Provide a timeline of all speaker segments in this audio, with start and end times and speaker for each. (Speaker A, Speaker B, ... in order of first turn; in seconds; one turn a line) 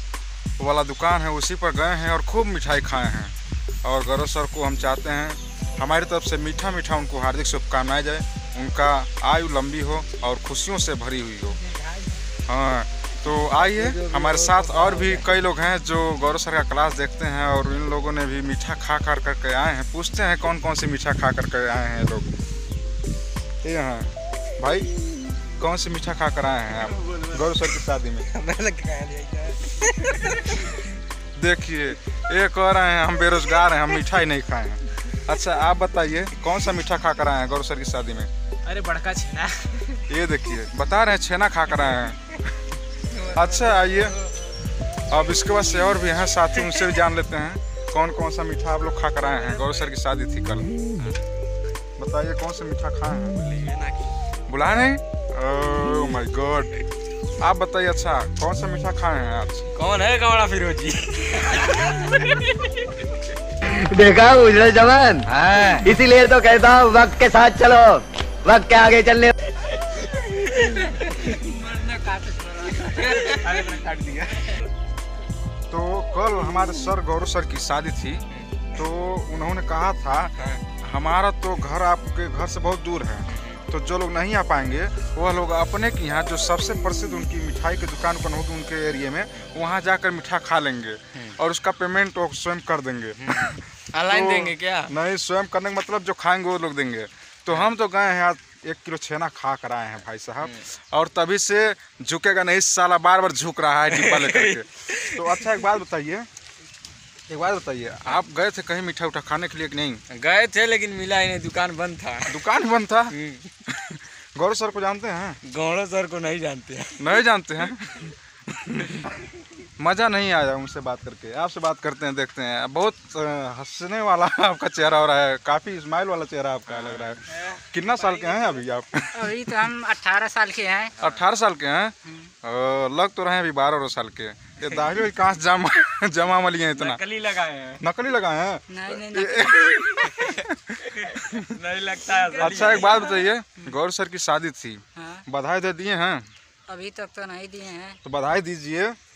Speaker A: 0.6-11.6
Speaker B: 11.6-12.1
Speaker A: 12.5-22.3
Speaker C: 13.6-15.2
Speaker A: 23.6-24.9
Speaker A: 25.6-28.3
Speaker C: 26.8-27.7
Speaker C: 28.3-30.7
Speaker A: 31.4-38.3
Speaker C: 38.7-39.9
Speaker A: 40.1-42.7
Speaker B: 43.1-44.3
Speaker A: 43.3-44.2
Speaker A: 45.1-50.9
Speaker A: 52.0-53.4
Speaker C: 53.4-54.1
Speaker A: 54.5-56.8
Speaker A: 57.4-59.7
Speaker C: 59.8-62.4
Speaker D: 63.7-69.3
Speaker B: 70.4-73.8
Speaker C: 73.0-74.6
Speaker A: 75.7-106.3
Speaker C: 78.3-78.6
Speaker C: 83.3-83.6
Speaker C: 93.2-94.9
Speaker C: 103.9-105.6
Speaker A: 107.3-110.0
Speaker C: 110.1-112.5
Speaker A: 112.3-113.1
Speaker C: 113.1-113.5
Speaker A: 113.7-115.4
Speaker C: 115.5-117.2
Speaker A: 117.0-119.1
Speaker A: 119.8-129.4
Speaker C: 126.7-128.6
Speaker B: 129.1-131.0
Speaker A: 131.0-137.0
Speaker C: 131.0-131.3
Speaker B: 132.1-132.3
Speaker C: 136.8-137.8
Speaker A: 137.8-141.5
Speaker B: 138.7-139.8
Speaker C: 140.9-143.1
Speaker B: 142.3-143.1
Speaker A: 142.4-146.3
Speaker B: 145.0-145.2
Speaker B: 146.7-148.0
Speaker A: 148.0-149.0